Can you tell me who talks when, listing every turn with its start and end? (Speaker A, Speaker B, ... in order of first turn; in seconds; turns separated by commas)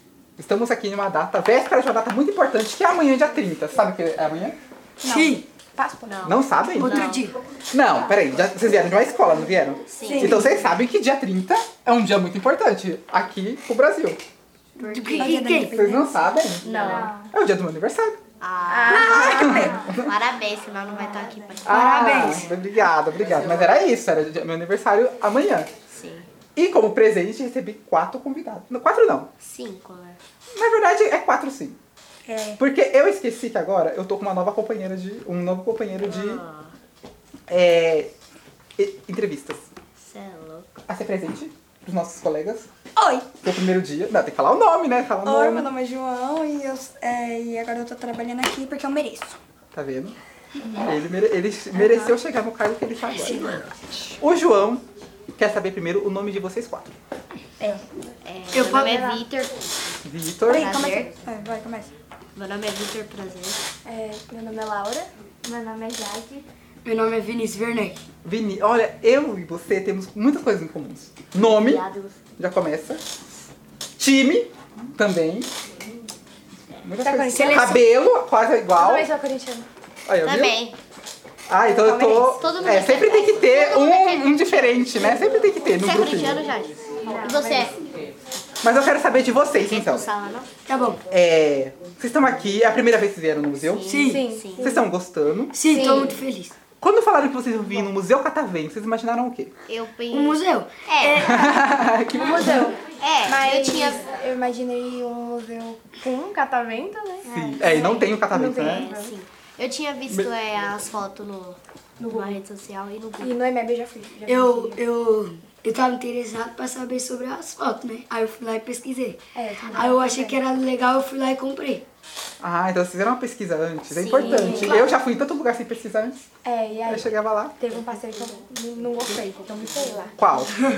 Speaker A: 0.4-4.6, Speaker B: 5.0-6.3, Speaker C: 5.1-5.4, Speaker D: 6.0-7.2, Speaker A: 6.2-7.2, Speaker C: 6.8-7.3, Speaker A: 7.7-14.2, Speaker D: 9.9-10.5, Speaker E: 10.1-10.6, Speaker C: 14.8-15.7, Speaker D: 14.9-15.4, Speaker E: 15.2-16.2, Speaker A: 15.7-18.2, Speaker D: 16.6-17.2, Speaker D: 18.4-22.5, Speaker B: 18.7-19.0, Speaker E: 18.9-19.7, Speaker A: 18.9-20.1, Speaker A: 21.6-25.8, Speaker E: 21.7-22.5, Speaker C: 21.8-22.1, Speaker D: 25.9-26.3, Speaker A: 26.6-29.3, Speaker D: 29.4-30.2, Speaker A: 30.5-31.8, Speaker E: 32.3-32.6, Speaker A: 32.6-36.4, Speaker D: 36.0-36.7, Speaker A: 37.5-38.1, Speaker A: 38.8-39.7, Speaker D: 40.0-40.7, Speaker A: 40.9-42.7, Speaker E: 43.0-43.3, Speaker A: 43.4-45.7, Speaker E: 45.2-49.4, Speaker A: 49.7-50.2, Speaker A: 50.8-53.5, Speaker D: 53.2-53.6, Speaker E: 53.3-53.6, Speaker A: 54.2-54.8, Speaker A: 55.4-56.9, Speaker D: 58.2-59.6, Speaker C: 58.5-59.0, Speaker B: 58.6-59.2, Speaker A: 60.0-60.8, Speaker E: 60.5-61.9, Speaker D: 60.5-61.1, Speaker D: 62.4-63.6, Speaker B: 63.9-66.5, Speaker C: 66.8-68.0, Speaker A: 68.2-73.0, Speaker D: 71.4-72.2, Speaker A: 74.0-75.5, Speaker A: 76.8-79.1, Speaker B: 77.0-77.6, Speaker C: 77.3-77.8, Speaker B: 78.8-79.7, Speaker A: 80.1-80.6, Speaker D: 80.2-80.8, Speaker A: 81.5-86.5, Speaker B: 81.6-82.4, Speaker D: 82.3-87.8, Speaker B: 87.0-87.8, Speaker A: 88.6-90.1, Speaker D: 89.5-90.5, Speaker C: 90.7-91.0, Speaker A: 91.1-93.9, Speaker D: 93.6-94.8, Speaker C: 93.9-94.2, Speaker B: 94.0-94.9, Speaker A: 94.6-95.6, Speaker C: 95.5-96.5, Speaker D: 95.7-96.2, Speaker B: 95.8-96.1, Speaker A: 96.8-99.5, Speaker D: 99.7-101.5, Speaker C: 100.1-101.5, Speaker A: 101.1-102.7, Speaker B: 101.6-109.2, Speaker D: 103.0-104.1, Speaker A: 107.3-108.9, Speaker D: 107.3-113.3, Speaker B: 112.0-112.4, Speaker B: 113.2-114.8, Speaker C: 114.3-119.2, Speaker B: 119.3-120.4, Speaker C: 119.7-121.8, Speaker A: 122.4-126.2, Speaker D: 123.9-124.9, Speaker B: 124.2-124.9, Speaker C: 124.3-124.7, Speaker B: 126.4-130.2, Speaker A: 126.9-127.5, Speaker A: 130.2-130.6